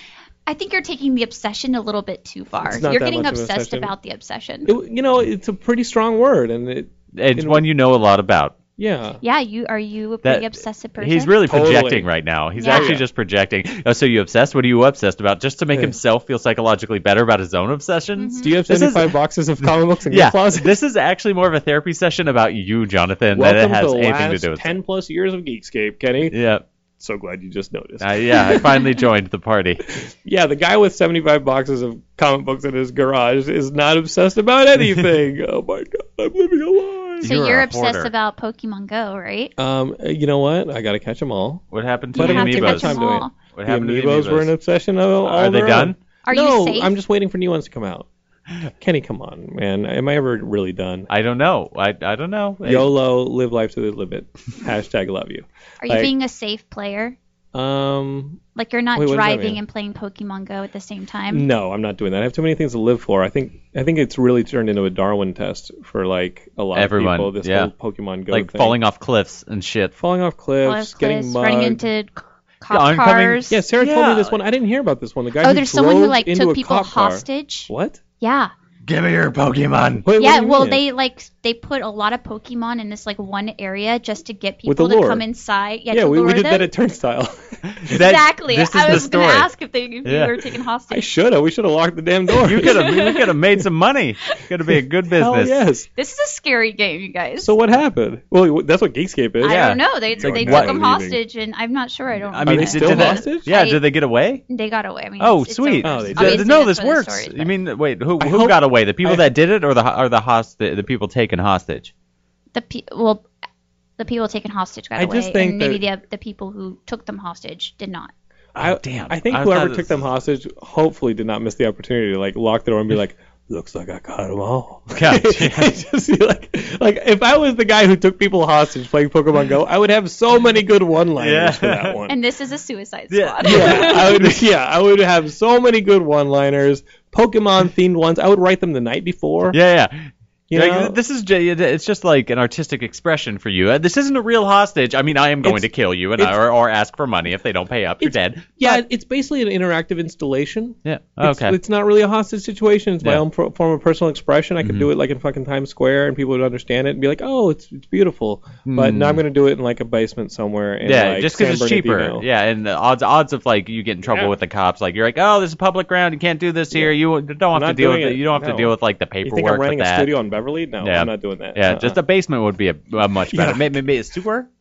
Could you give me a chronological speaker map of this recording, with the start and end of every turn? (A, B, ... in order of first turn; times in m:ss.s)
0:00.4-0:04.7 A
0:02.6-0:03.9 B
0:04.6-0:07.6 B
0:07.1-0:08.6 C
0:08.8-0:09.2 B
0:09.2-0:11.3 A
0:10.2-0:24.7 C
0:11.4-0:12.1 B
0:12.6-0:13.0 A
0:12.6-0:13.0 B
0:18.2-0:18.6 A
0:18.4-0:20.7 B
0:23.3-0:26.3 B
0:26.3-0:26.6 C
0:27.0-0:28.6 B
0:28.0-0:29.8 C
0:30.0-0:37.2 B
0:37.2-0:38.1 C
0:37.2-0:39.5 A
0:39.6-0:48.1 B
0:41.7-0:44.5 C
0:42.1-0:43.3 A
0:45.2-0:46.0 C
0:46.2-0:46.9 A
0:48.7-0:51.1 B
0:51.1-0:52.9 C
0:52.6-0:56.1 B
0:55.8-0:57.2 A
0:57.5-0:58.4 B
0:58.5-1:01.5 A
0:58.9-0:59.6 B
1:01.3-1:08.8 B
1:06.7-1:07.7 C
1:08.3-1:09.9 C
1:10.0-1:11.8 B
1:10.6-1:13.6 A
1:12.7-1:14.4 C
1:13.5-1:18.0 B
1:15.4-1:18.5 A
1:18.9-1:20.1 C
1:20.0-1:20.8 B
1:20.2-1:26.7 A
1:24.6-1:25.2 B
1:25.9-1:28.0 B
1:27.7-1:29.5 C
1:27.9-1:31.0 A
1:30.0-1:30.4 C
1:30.9-1:32.9 B
1:32.4-1:35.5 C
1:32.6-1:33.3 A
1:35.1-1:35.9 B
1:36.0-1:37.5 A
1:37.4-1:41.2 B
1:39.4-1:43.8 A
1:39.4-1:40.8 C
1:42.3-1:44.4 C
1:42.4-1:43.5 B
1:44.5-1:47.5 A
1:45.2-1:51.9 C
1:45.8-1:46.5 B
1:48.2-1:49.3 B
1:52.5-1:53.3 A
1:54.0-1:58.1 A
1:55.0-1:55.8 B
1:58.6-2:12.1 B
1:58.6-1:59.9 C
2:05.0-2:05.7 C
2:11.2-2:12.0 C
2:12.1-2:14.2 A
2:13.1-2:14.4 C
2:13.4-2:19.6 B
2:19.5-2:28.8 C
2:20.5-2:21.0 B
2:25.4-2:26.4 B
2:28.0-2:42.2 B
2:30.8-2:31.6 C
2:34.6-2:34.9 C
2:38.6-2:39.2 C
2:40.8-2:50.1 C
2:44.1-2:44.3 B
2:47.5-2:52.0 B
2:50.8-2:54.5 C
2:53.3-2:53.7 B